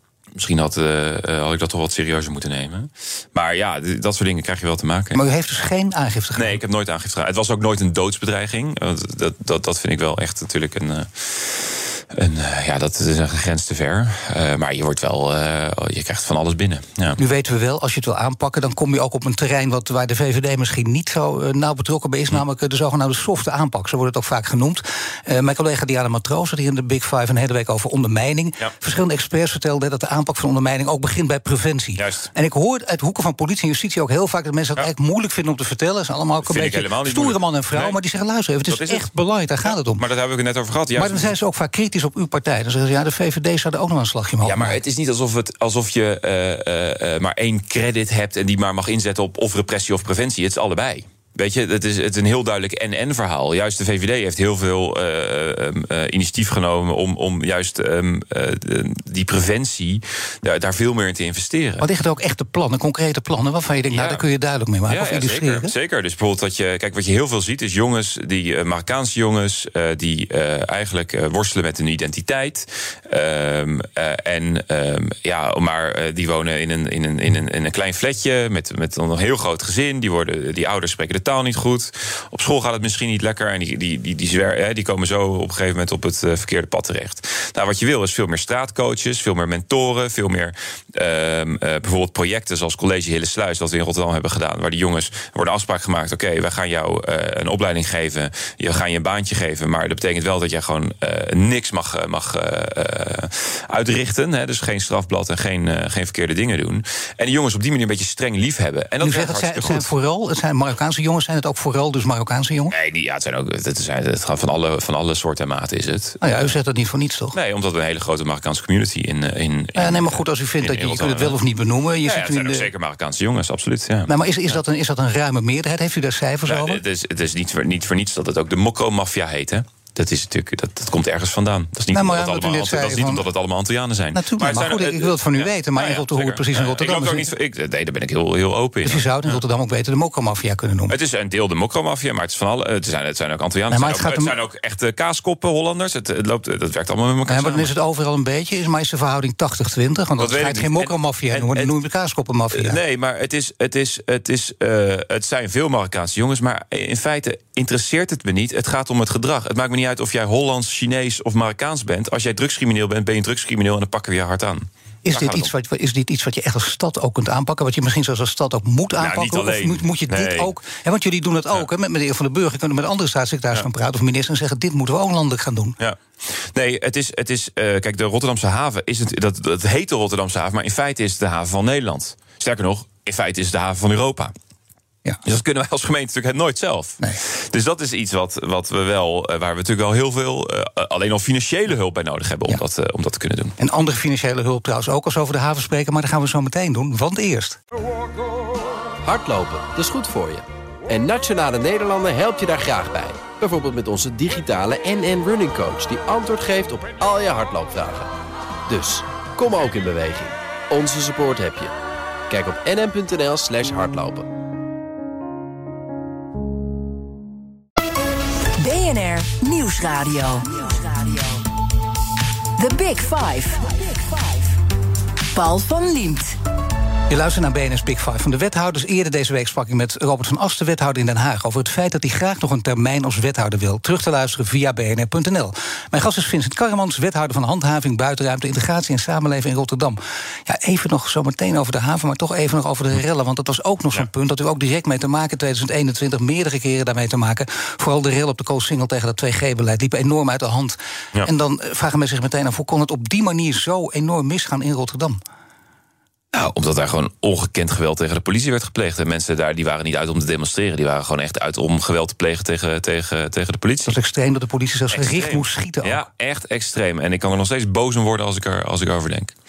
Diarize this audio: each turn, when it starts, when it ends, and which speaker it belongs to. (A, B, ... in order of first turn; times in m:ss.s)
0:00.3-0:05.2 A
0:05.1-0:06.6 B
0:06.3-0:17.2 A
0:17.2-0:40.0 B
0:32.0-0:32.3 A
0:36.4-0:38.0 A
0:38.7-0:39.1 A
0:39.6-0:41.3 A
0:41.0-0:44.8 B
0:44.4-1:01.8 A
1:01.8-1:05.7 B
1:03.9-1:04.2 A
1:04.9-1:49.9 A
1:49.0-1:52.7 B
1:52.7-1:56.5 A
1:56.2-1:57.3 B
1:57.3-2:01.4 A
1:59.8-2:02.7 B
2:02.0-2:04.6 A
2:04.1-2:06.8 B
2:06.4-2:19.4 A
2:11.9-2:13.2 B
2:14.1-2:17.3 B
2:18.8-2:20.9 B
2:20.9-2:27.7 A
2:23.7-2:24.4 B
2:27.3-2:32.8 B
2:30.2-2:31.8 A
2:32.5-2:45.5 A
2:45.0-2:55.8 B
2:49.0-2:50.5 A
2:55.8-3:04.3 A
3:05.2-3:13.6 A
3:13.6-3:17.6 B
3:19.0-3:28.1 C
3:28.7-3:31.7 C
3:32.3-3:34.3 C
3:38.6-3:41.4 D
3:42.6-3:44.6 D
3:45.3-3:46.4 D
3:47.1-4:15.2 B
4:16.3-4:24.0 A
4:23.9-4:26.0 B
4:24.9-4:29.3 A